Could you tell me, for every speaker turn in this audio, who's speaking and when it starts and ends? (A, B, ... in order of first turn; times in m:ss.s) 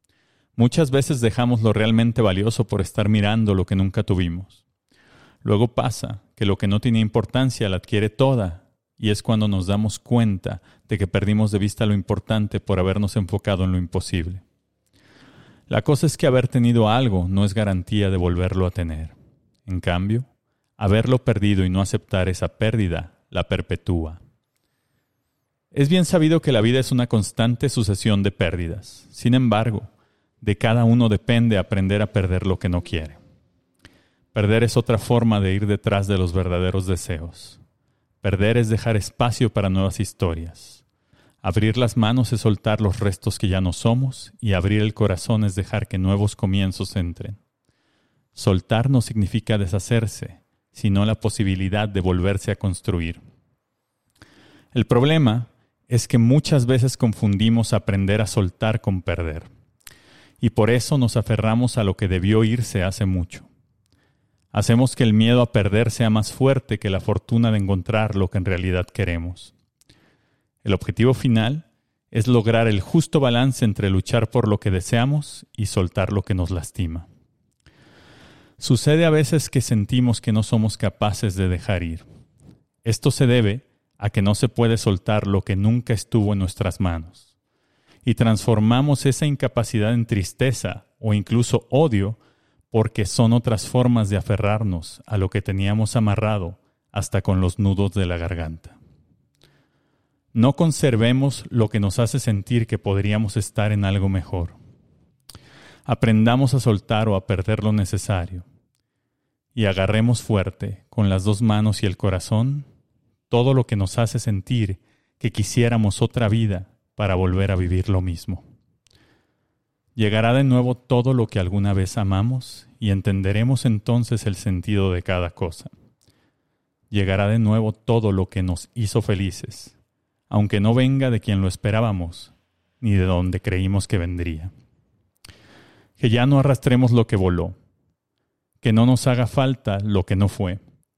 0:00.6-0:04.6 A
0:05.4-0:14.4 A
0:15.7-0:19.2 A
0:19.7-0:20.3 A
0:20.8-0:24.2 A
0:25.7-0:29.9 A
0:30.4-0:33.2 A
0:34.3-0:37.6 A
0:38.2-0:40.8 A
0:41.4-0:47.4 A
0:48.4-0:53.2 A
0:54.7-0:59.5 A
1:00.4-1:03.5 A
1:04.5-1:09.5 A
1:10.6-1:17.1 A
1:18.6-1:22.1 A
1:22.8-1:27.2 A
1:28.0-1:32.2 A
1:32.7-1:38.8 A
1:40.3-1:44.6 A
1:45.9-1:48.4 A
1:49.6-1:52.7 A
1:53.3-1:58.4 A
2:00.0-2:05.7 A
2:06.9-2:09.7 A
2:10.3-2:14.5 A
2:16.0-2:17.6 A
2:18.6-2:20.6 A